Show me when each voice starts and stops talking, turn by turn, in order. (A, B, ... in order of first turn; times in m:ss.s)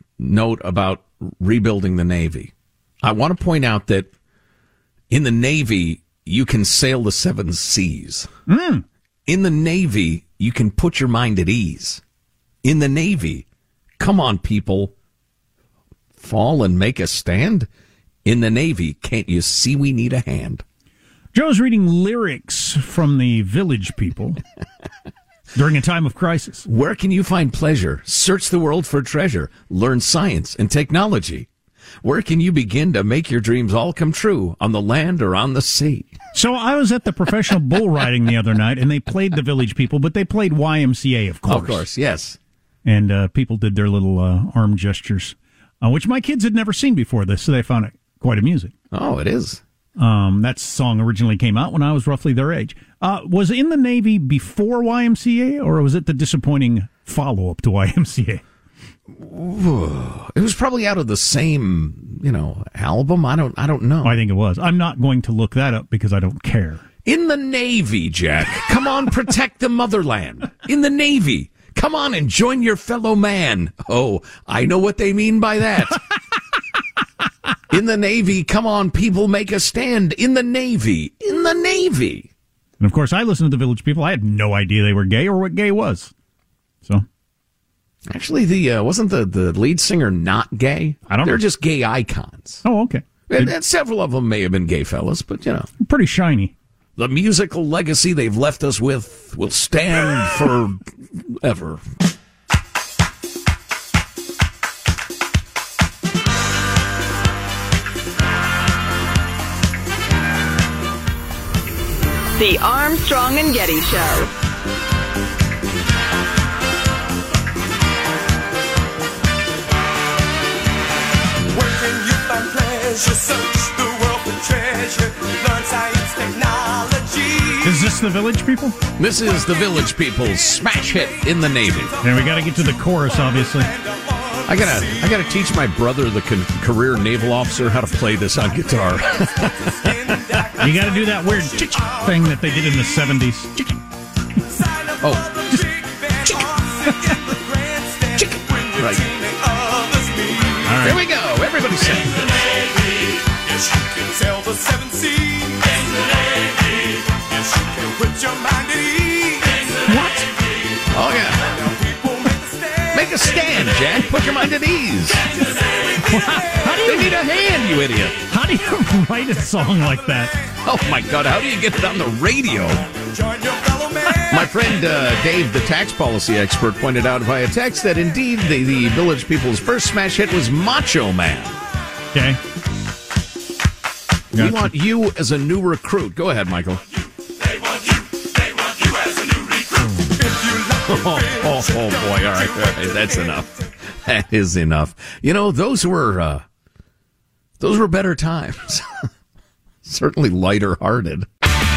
0:00.2-0:02.5 A
0:03.0-0:04.1 A
0:05.1-0:08.3 A
0:08.5-0:08.8 B
0:09.3-0:12.0 A
0:12.6-0:13.4 A
0:14.0-0:14.9 A
0:16.2-0:17.7 A
0:18.2-0:20.6 A
0:21.3-0:24.4 B
0:25.5-0:26.6 B
0:26.6-0:31.5 A
0:32.0-0:36.1 A
0:36.3-0:41.8 B
0:41.5-0:42.4 A
0:42.8-0:48.7 B
0:48.9-0:49.6 A
0:50.0-0:58.4 B
0:59.1-1:04.1 A
1:04.0-1:06.8 B
1:07.0-1:16.0 A
1:17.7-1:22.3 A
1:22.8-1:26.1 B
1:28.1-1:32.6 A
1:31.1-1:31.4 B
1:32.6-1:33.5 B
1:33.3-1:35.7 A
1:35.8-1:36.5 B
1:37.0-1:41.8 A
1:52.4-1:54.3 C
2:01.5-2:07.6 D
2:07.6-2:08.8 B
2:09.0-2:12.0 A
2:12.0-2:13.7 B
2:13.7-2:14.4 D
2:14.5-2:20.0 A
2:19.9-2:21.2 D
2:20.6-2:23.8 B
2:25.0-2:25.5 A
2:25.5-2:30.6 D
2:28.2-2:29.0 A
2:30.6-2:31.0 B
2:30.8-2:32.5 A
2:33.7-2:36.2 D
2:37.1-2:39.7 D
2:39.8-2:40.3 B
2:40.9-2:41.5 A
2:41.7-2:42.9 D
2:42.9-2:45.3 A
2:45.5-2:46.1 D
2:45.9-2:47.2 B
2:46.8-2:48.2 A
2:48.2-2:50.3 B
2:50.6-2:52.9 A
2:53.3-2:54.2 D
2:54.2-3:01.6 A
3:02.1-3:02.4 B
3:04.3-3:06.8 A
3:04.3-3:04.7 B
3:10.2-3:10.8 D
3:10.8-3:16.4 A
3:17.6-3:18.9 A
3:19.8-3:21.2 A